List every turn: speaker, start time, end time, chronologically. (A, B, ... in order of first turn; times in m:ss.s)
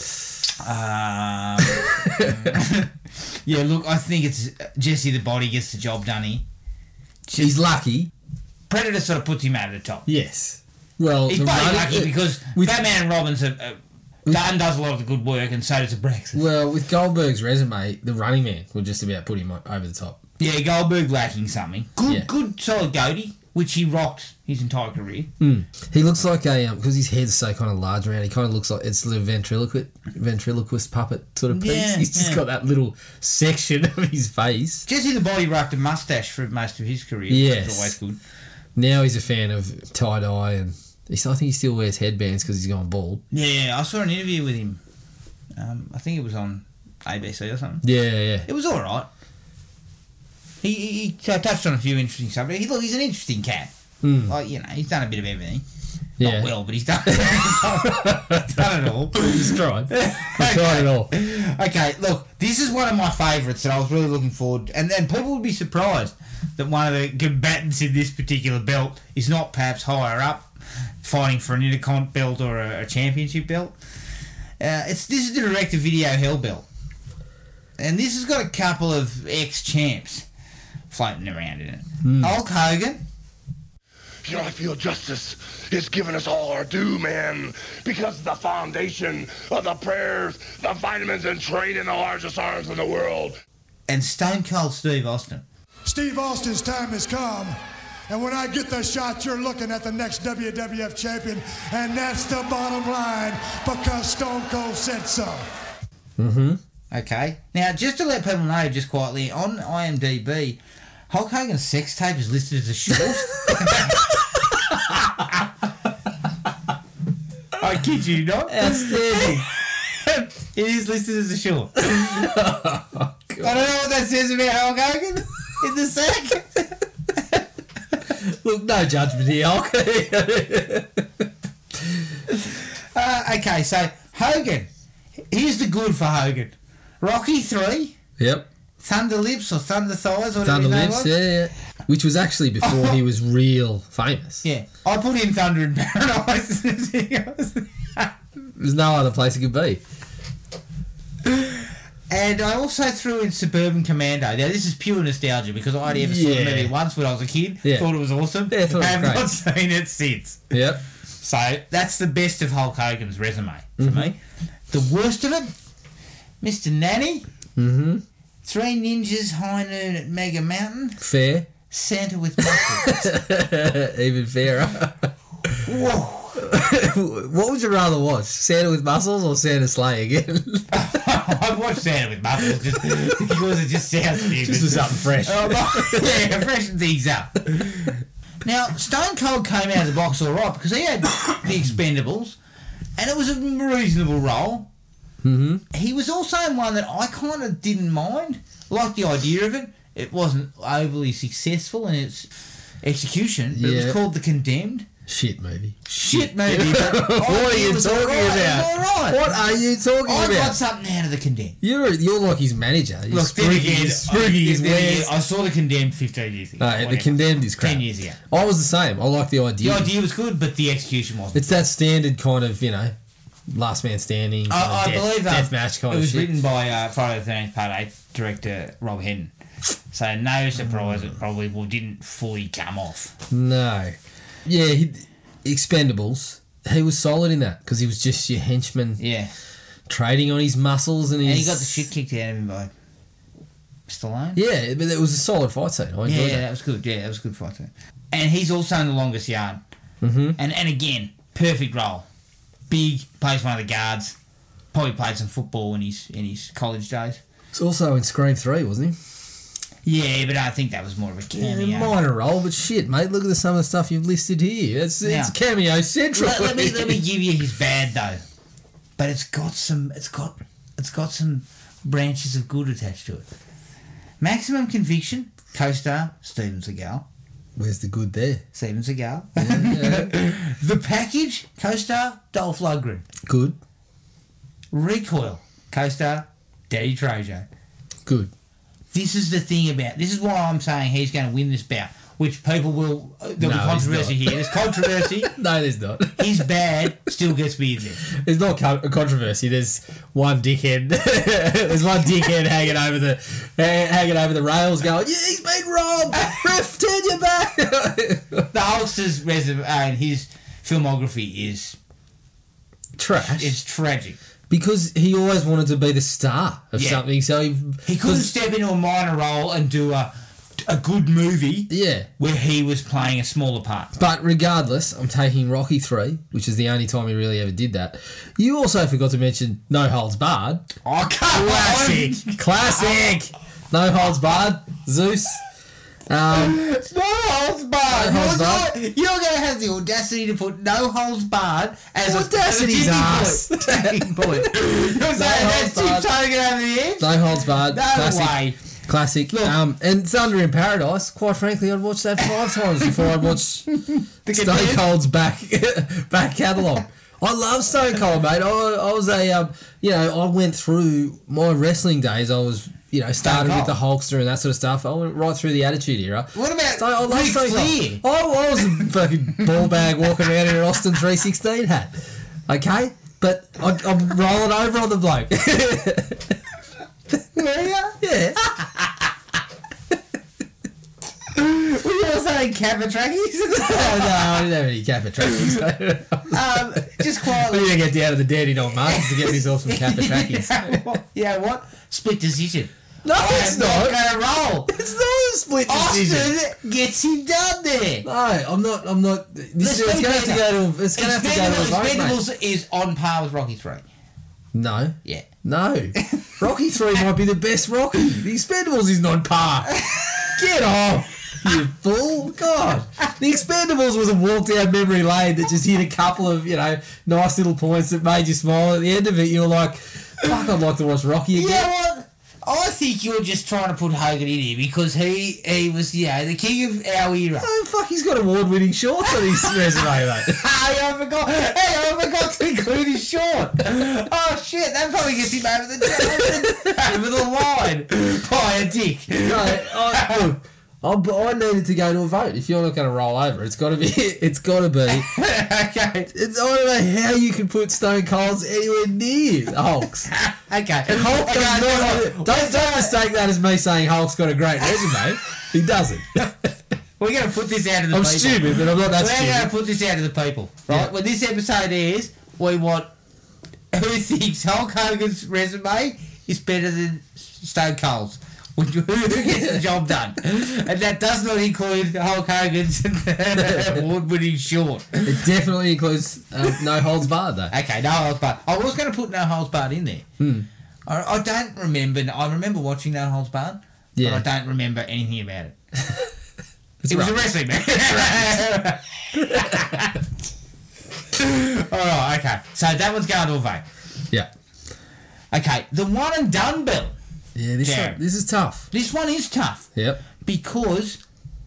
0:00.6-0:02.9 A
0:01.8-0:02.6 B
0:03.4-0:06.4 A
0:07.3-0:07.6 A
0:07.4-0:08.1 B
0:08.7-0:10.1 A
0:10.1-0:12.9 B
0:11.3-0:16.4 A
0:16.3-0:20.2 B
0:20.4-0:25.3 A
0:25.4-0:34.9 B
0:31.5-0:32.4 A
0:34.9-0:38.2 A
0:37.3-0:38.0 B
0:38.8-0:43.2 B
0:43.3-0:44.8 A
0:45.6-0:47.8 A
0:47.8-0:48.5 B
0:48.4-0:49.1 A
0:50.6-0:53.7 A
0:54.0-0:54.4 B
0:54.2-0:55.6 A
0:56.2-0:56.5 B
0:56.2-1:10.5 A
0:57.0-1:01.1 B
1:11.0-1:13.8 A
1:14.6-1:16.7 A
1:17.8-1:20.2 A
1:20.9-1:23.0 A
1:22.0-1:22.4 B
1:24.2-1:33.4 C
1:33.9-1:35.4 A
1:35.8-1:45.5 D
1:46.2-1:46.6 B
1:46.9-1:50.6 A
1:51.1-1:54.1 A
1:53.5-1:54.0 B
1:57.6-2:01.8 A
1:58.5-1:59.5 B
2:01.8-2:03.6 B
2:03.4-2:06.7 A
2:08.2-2:11.2 B
2:12.3-2:14.7 A
2:15.3-2:18.0 A
2:18.2-2:18.5 B
2:18.8-2:21.2 A
2:20.4-2:24.4 B
2:22.6-2:23.0 A
2:24.4-2:28.1 A
2:28.5-2:29.8 B
2:31.3-2:31.6 A
2:32.1-2:40.5 A
2:35.9-2:36.8 B
2:37.6-2:37.9 B
2:38.5-2:39.3 B
2:40.5-2:40.8 B
2:41.2-2:44.2 A
2:43.8-2:44.1 B
2:44.7-2:45.5 A
2:46.4-2:47.3 A
2:47.6-2:48.0 B
2:48.4-2:51.0 A
2:51.0-2:51.5 B
2:51.7-2:53.1 A
2:52.4-2:55.6 B
2:55.6-2:56.4 A
2:56.4-3:00.7 B
3:00.7-3:12.4 A
3:04.2-3:06.4 B
3:13.0-3:14.7 A
3:15.2-3:15.6 B
3:15.7-3:22.3 A
3:22.8-3:24.9 A
3:23.5-3:24.0 B
3:25.1-3:30.6 B
3:25.9-3:29.3 A
3:30.0-3:31.6 A
3:31.6-3:35.1 B
3:33.1-3:38.2 A
3:36.6-3:39.9 B
3:39.6-3:41.6 A
3:41.3-3:43.0 B
3:43.5-3:46.3 B
3:44.5-3:49.3 A
3:49.9-3:53.1 A
3:50.6-3:51.1 B
3:53.3-3:59.0 B
3:59.0-3:59.3 A
3:59.9-4:01.9 B
4:01.2-4:02.7 A
4:03.9-4:04.4 A
4:04.4-4:06.4 B
4:06.1-4:09.6 A
4:10.0-4:10.4 B
4:10.4-4:12.1 A
4:12.7-4:14.2 A
4:14.7-4:17.2 A
4:17.5-4:19.0 B
4:19.8-4:22.0 A
4:21.4-4:27.0 B
4:25.0-4:25.3 A
4:26.1-4:28.2 A
4:29.0-4:33.3 A
4:34.2-4:37.0 A
4:37.6-4:38.4 B
4:38.5-4:43.1 A
4:39.4-4:40.1 B
4:43.3-4:43.6 B
4:44.7-4:47.5 A
4:48.1-4:48.3 B
4:48.9-4:55.3 A
4:53.4-4:56.5 B
4:56.2-4:58.0 A
4:58.1-5:08.5 B
5:08.5-5:11.8 A
5:13.0-5:13.6 B
5:13.2-5:14.2 A
5:14.5-5:18.3 B
5:16.8-5:17.0 A
5:17.8-5:20.1 A
5:20.6-5:23.9 A
5:21.7-5:22.1 B
5:24.0-5:30.7 B
5:30.8-5:33.1 A
5:31.3-5:35.4 B
5:36.1-5:36.6 B
5:36.3-5:48.6 A
5:37.9-5:38.7 B
5:42.0-5:46.1 B
5:47.0-5:53.7 B
5:49.3-5:49.6 A
5:52.8-5:54.9 A
5:54.3-6:16.4 B
6:03.2-6:03.8 A
6:06.3-6:08.0 A
6:17.4-6:18.7 A
6:18.0-6:18.4 B
6:21.3-6:24.5 A
6:23.6-6:30.8 B
6:26.3-6:27.7 A
6:28.9-6:34.7 A
6:33.0-6:34.0 B
6:34.7-6:36.3 B
6:35.7-6:38.1 A
6:38.0-6:42.2 B
6:39.6-6:43.8 A
6:44.5-6:49.8 B
6:49.8-6:50.3 A
6:50.3-7:01.7 B
7:01.3-7:07.5 A
7:07.4-7:10.4 B
7:09.2-7:20.3 A
7:16.0-7:16.7 B
7:19.2-7:25.1 B
7:24.9-7:26.1 A
7:26.1-7:30.1 B
7:30.1-7:33.0 A
7:30.9-7:36.5 B
7:37.0-7:42.9 A
7:37.9-7:39.5 B
7:43.7-7:55.2 A
7:49.2-7:49.6 B
7:53.4-7:53.8 B
7:55.0-7:57.5 B
7:57.5-8:00.1 A
8:00.2-8:00.5 B
8:00.9-8:05.6 A
8:04.0-8:04.2 B
8:06.8-8:08.4 B
8:06.9-8:10.0 A
8:09.2-8:09.7 B
8:11.1-8:13.6 A
8:15.3-8:17.0 A
8:17.4-8:18.7 B
8:17.6-8:18.0 A
8:18.7-8:19.7 A
8:19.8-8:20.0 B
8:20.2-8:21.0 A